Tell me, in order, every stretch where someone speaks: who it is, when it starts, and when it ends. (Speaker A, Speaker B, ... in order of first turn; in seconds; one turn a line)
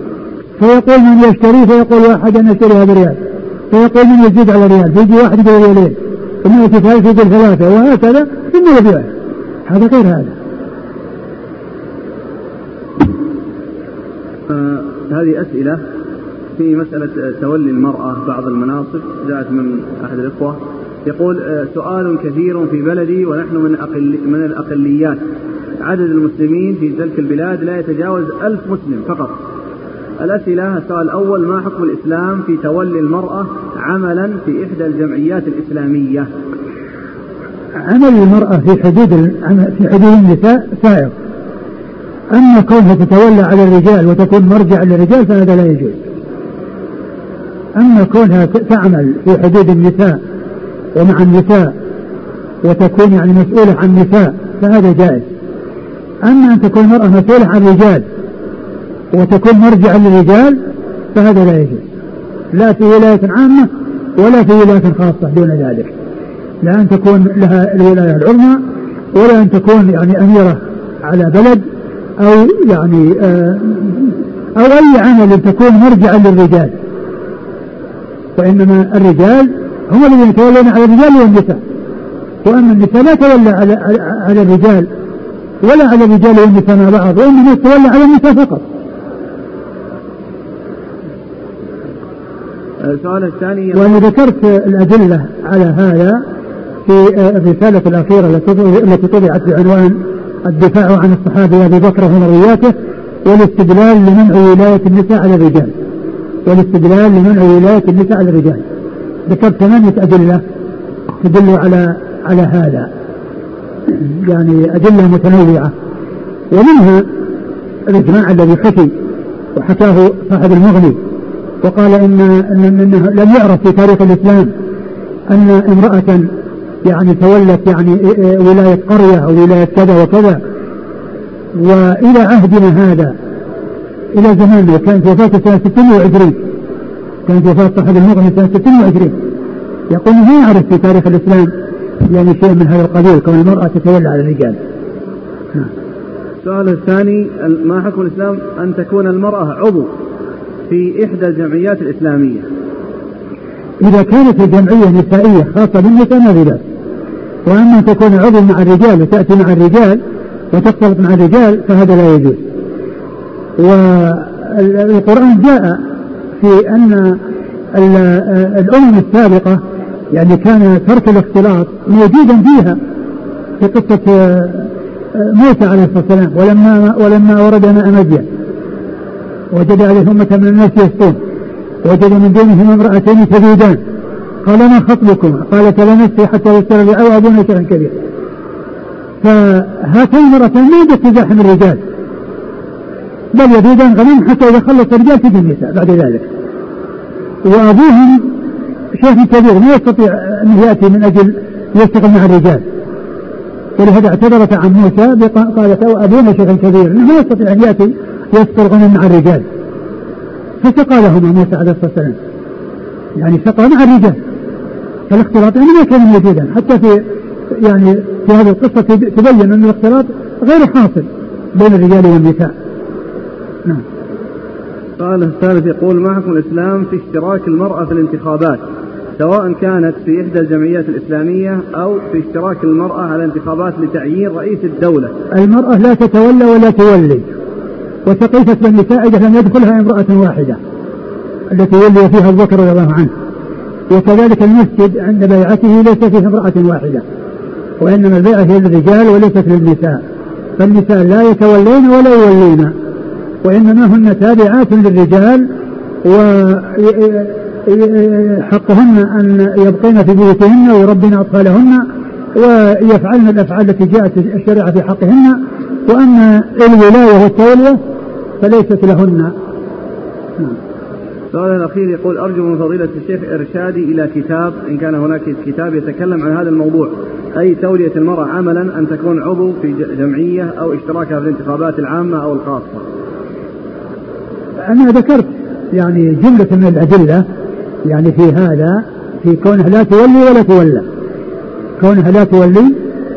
Speaker A: 0.6-3.2
Speaker A: 3.7-9.1
Speaker A: 9.7-10.3
Speaker B: 14.5-15.8
Speaker B: 16.6-25.2
Speaker B: 25.8-29.4
Speaker B: 30.2-36.3
Speaker A: 37.8-41.1
Speaker A: 42.3-46.0
Speaker A: 47.8-50.2
Speaker A: 50.9-51.8
Speaker A: 52.6-55.2
Speaker A: 56.2-58.0
Speaker A: 59.1-60.6
Speaker A: 61.1-61.8
Speaker A: 62.5-65.9
Speaker A: 66.6-68.6
Speaker A: 69.1-71.6
Speaker A: 72.2-76.7
Speaker A: 78.3-81.6
Speaker A: 82.4-84.9
Speaker A: 85.6-88.6
Speaker B: 92.8-93.9
Speaker A: 93.7-96.2
Speaker A: 96.8-102.7
Speaker A: 103.2-105.7
Speaker A: 106.5-108.6
Speaker A: 109.3-110.4
Speaker A: 111.2-112.9
Speaker A: 113.9-115.7
Speaker A: 116.5-117.0
Speaker A: 117.9-118.9
Speaker A: 119.5-121.0
Speaker A: 121.6-124.5
Speaker A: 125.3-126.3
Speaker A: 126.8-130.4
Speaker A: 131.6-133.1
Speaker A: 134.1-136.4
Speaker A: 137.2-139.2
Speaker A: 139.9-141.5
Speaker A: 142.1-144.6
Speaker B: 146.4-149.9
Speaker B: 150.7-152.4
Speaker A: 153.8-156.6
Speaker A: 157.4-160.0
Speaker A: 160.5-162.4
Speaker A: 163.6-165.8
Speaker A: 166.4-167.2
Speaker A: 167.7-172.8
Speaker A: 173.6-178.3
Speaker A: 179.5-181.2
Speaker A: 181.8-183.8
Speaker A: 184.4-187.9
Speaker A: 189.2-191.8
Speaker A: 193.3-196.3
Speaker A: 197.4-198.3
Speaker A: 199.0-202.6
Speaker A: 203.8-209.4
Speaker A: 210.6-212.2
Speaker A: 213.2-214.2
Speaker A: 215.1-217.0
Speaker A: 217.5-222.5
Speaker B: 225.0-228.6
Speaker B: 229.2-235.1
Speaker A: 235.3-237.3
Speaker A: 238.0-240.6
Speaker A: 241.5-243.1
Speaker A: 243.9-247.0
Speaker A: 247.8-250.0
Speaker A: 250.6-252.7
Speaker A: 253.4-255.5
Speaker A: 256.0-267.8
Speaker A: 268.4-269.3
Speaker B: 271.3-282.8
Speaker A: 284.7-287.2
Speaker A: 287.9-290.8
Speaker A: 291.8-292.7